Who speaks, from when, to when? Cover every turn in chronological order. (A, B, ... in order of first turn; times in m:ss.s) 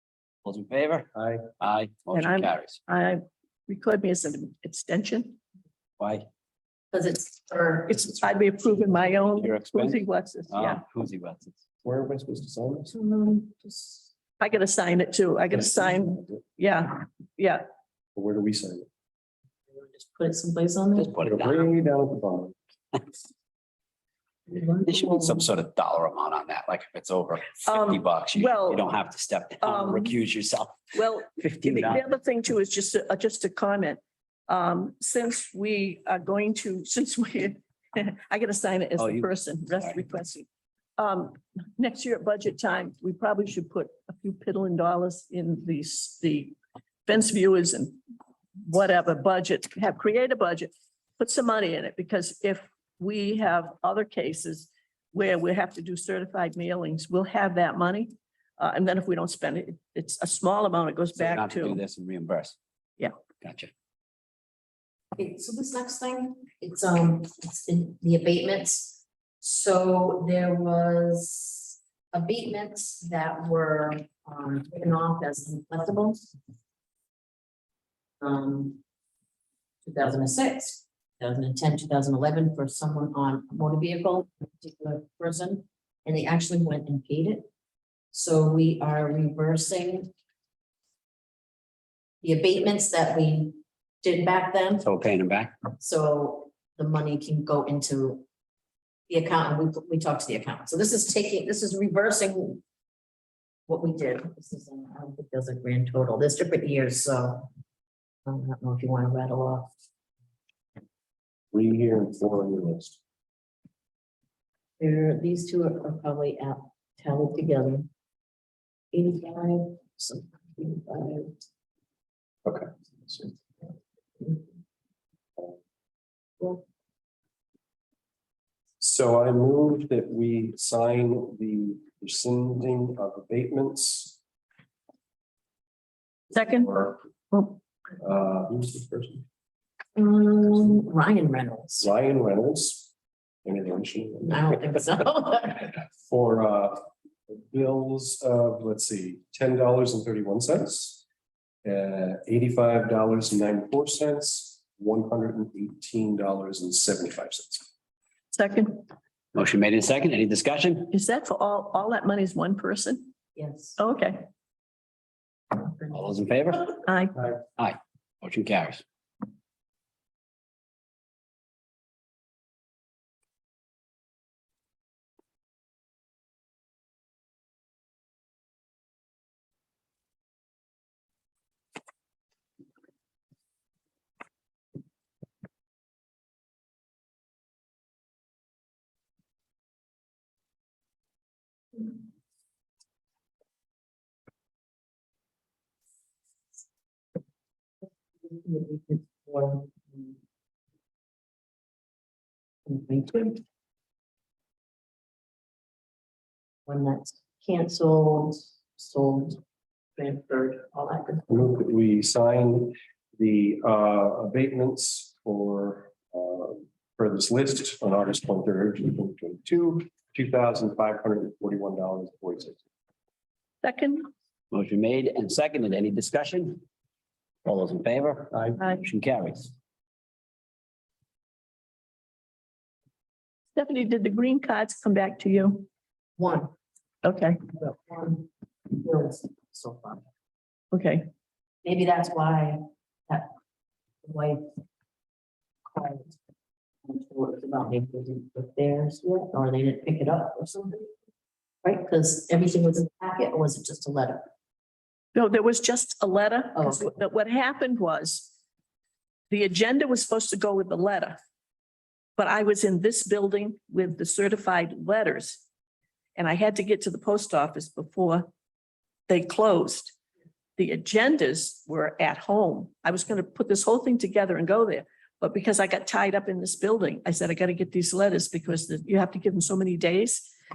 0:00.4-0:02.8 A
0:01.1-0:01.5 B
0:02.1-0:05.4 C
0:06.0-0:06.2 A
0:06.9-0:08.8 D
0:07.9-0:10.8 C
0:09.3-0:11.6 A
0:11.8-0:12.9 B
0:12.9-0:14.1 D
0:14.4-0:17.6 C
0:15.6-0:16.3 B
0:18.1-0:18.9 B
0:19.7-0:21.1 D
0:20.9-0:21.7 A
0:21.2-0:22.6 B
0:24.5-0:25.5 D
0:24.8-0:30.9 A
0:27.6-0:28.9 C
0:29.6-0:30.2 C
0:30.9-0:40.4 C
0:31.4-0:32.0 A
0:39.0-0:40.0 A
0:41.0-0:48.0 C
0:48.6-1:01.8 C
1:01.2-1:02.6 A
1:03.4-1:03.7 A
1:05.1-1:16.3 D
1:18.2-1:18.8 D
1:19.8-1:27.5 D
1:28.1-1:30.1 D
1:32.2-1:34.8 D
1:34.8-1:35.5 A
1:35.8-1:38.2 D
1:39.1-1:42.6 D
1:43.7-1:47.5 D
1:48.2-1:49.7 D
1:51.5-1:53.0 B
1:54.8-1:57.9 D
1:58.9-2:01.4 D
2:02.4-2:03.2 B
2:04.2-2:04.4 D
2:08.8-2:14.2 B
2:16.3-2:16.7 C
2:16.4-2:17.0 B
2:17.3-2:17.6 C
2:18.0-2:19.2 B
2:20.0-2:21.9 D
2:21.8-2:22.9 B
2:23.4-2:24.5 B
2:24.2-2:25.7 D
2:26.0-2:31.0 B
2:31.6-2:37.7 B
2:38.3-2:38.8 C
2:39.3-2:40.9 A
2:40.9-2:43.1 C
2:43.4-2:43.8 D
2:43.8-2:44.2 C
2:45.5-2:45.9 D
2:45.9-2:46.7 A
2:46.8-2:47.1 C
2:47.6-2:48.8 A
3:18.2-3:20.2 D
3:22.6-3:23.4 D
3:26.7-3:29.4 D
3:30.0-3:31.5 D
3:31.3-3:42.6 B
3:43.6-3:44.1 C
3:44.5-3:46.6 A
3:47.4-3:49.5 A
3:48.6-3:48.8 C
3:53.6-3:55.7 C
3:56.2-3:56.5 D
3:57.0-3:57.4 C
3:57.6-4:00.0 D
4:00.7-4:01.1 C
4:01.6-4:03.4 D
4:04.0-4:04.5 D
4:05.7-4:06.2 D
4:06.8-4:10.9 D
4:11.6-4:14.3 D
4:15.1-4:18.3 C
4:16.6-4:16.9 D
4:19.3-4:21.2 C
4:22.2-4:25.4 C
4:26.2-4:28.3 C
4:29.1-4:30.0 C
4:30.6-4:40.3 C